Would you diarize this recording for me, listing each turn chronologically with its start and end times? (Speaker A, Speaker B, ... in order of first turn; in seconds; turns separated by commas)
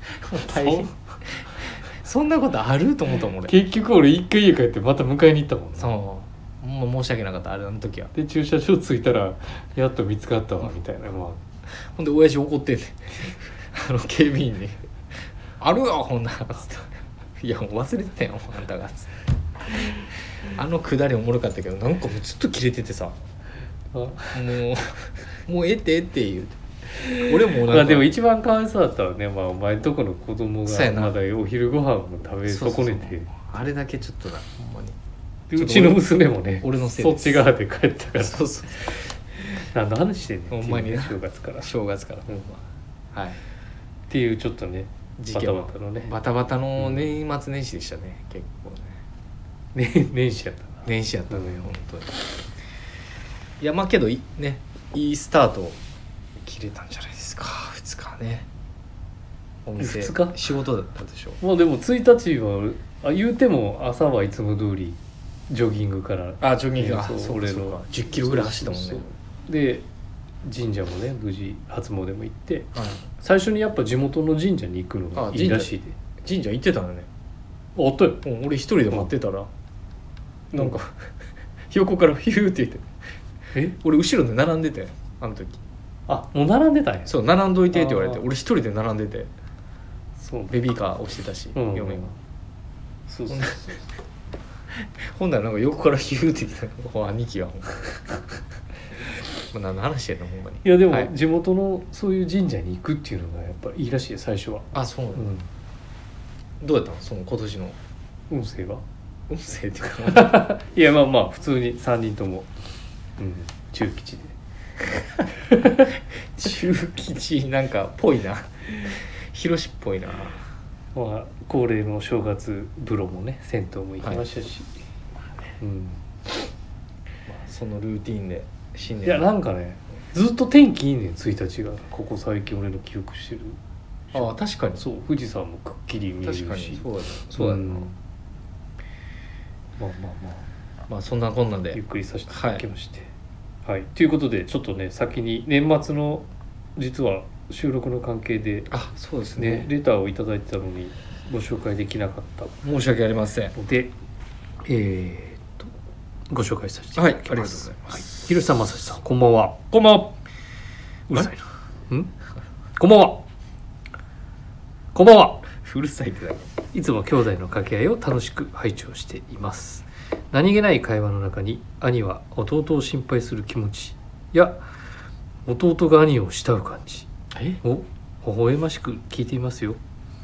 Speaker A: 0.1-3.5, Speaker B: 0.5-0.9, Speaker B: 3.4-5.9, Speaker A: 5.8-8.1, Speaker B: 8.1-11.4, Speaker A: 11.8-14.8, Speaker A: 15.6-19.2, Speaker A: 19.7-23.2, Speaker B: 23.9-24.4, Speaker A: 24.3-28.1, Speaker B: 26.9-33.3, Speaker A: 30.6-31.1, Speaker A: 32.5-35.0, Speaker B: 35.5-41.7, Speaker A: 35.5-36.0, Speaker A: 36.6-37.4, Speaker A: 38.2-38.9, Speaker A: 40.5-42.6, Speaker A: 43.1-43.4, Speaker B: 44.1-46.1, Speaker A: 45.2-49.0, Speaker B: 46.8-47.1, Speaker B: 49.7-51.7, Speaker A: 50.8-52.2, Speaker A: 53.6-55.8, Speaker A: 56.4-58.5, Speaker A: 59.6-61.4, Speaker B: 59.8-60.4, Speaker B: 61.4-65.0, Speaker B: 65.5-69.8, Speaker A: 66.4-69.0, Speaker B: 70.4-76.0, Speaker A: 72.7-73.0, Speaker A: 75.1-77.1, Speaker B: 77.8-78.2, Speaker A: 78.2-79.5, Speaker A: 80.5-81.1, Speaker A: 81.7-82.8, Speaker A: 83.8-85.6, Speaker B: 86.1-87.1, Speaker A: 87.0-89.3, Speaker B: 87.7-88.2, Speaker B: 90.2-90.5, Speaker A: 90.5-92.1, Speaker B: 91.5-92.2, Speaker B: 93.1-93.9, Speaker A: 93.3-93.6, Speaker A: 94.7-98.0, Speaker A: 99.5-101.1, Speaker B: 100.6-105.5, Speaker A: 104.7-105.3, Speaker A: 106.6-107.8, Speaker B: 108.3-108.8, Speaker A: 109.3-110.4, Speaker B: 110.0-112.5, Speaker B: 113.2-114.3, Speaker B: 115.4-115.9, Speaker A: 116.3-120.5, Speaker B: 120.9-124.7, Speaker B: 125.6-126.0, Speaker A: 127.3-129.3, Speaker B: 129.0-133.6, Speaker B: 134.1-138.0, Speaker A: 134.1-134.8, Speaker A: 136.2-137.9, Speaker B: 139.8-140.4, Speaker A: 140.9-142.7, Speaker B: 141.7-143.1, Speaker B: 143.7-148.7, Speaker A: 148.7-149.7, Speaker B: 149.3-152.6, Speaker A: 152.6-153.5, Speaker B: 153.5-153.9, Speaker B: 154.6-155.7, Speaker B: 156.3-159.6, Speaker A: 156.9-158.1, Speaker A: 159.7-160.2, Speaker B: 161.1-162.1, Speaker B: 162.8-163.2, Speaker B: 164.9-165.5, Speaker A: 165.5-166.5, Speaker B: 166.7-174.6, Speaker B: 175.4-177.1, Speaker A: 177.3-177.6, Speaker B: 177.6-179.8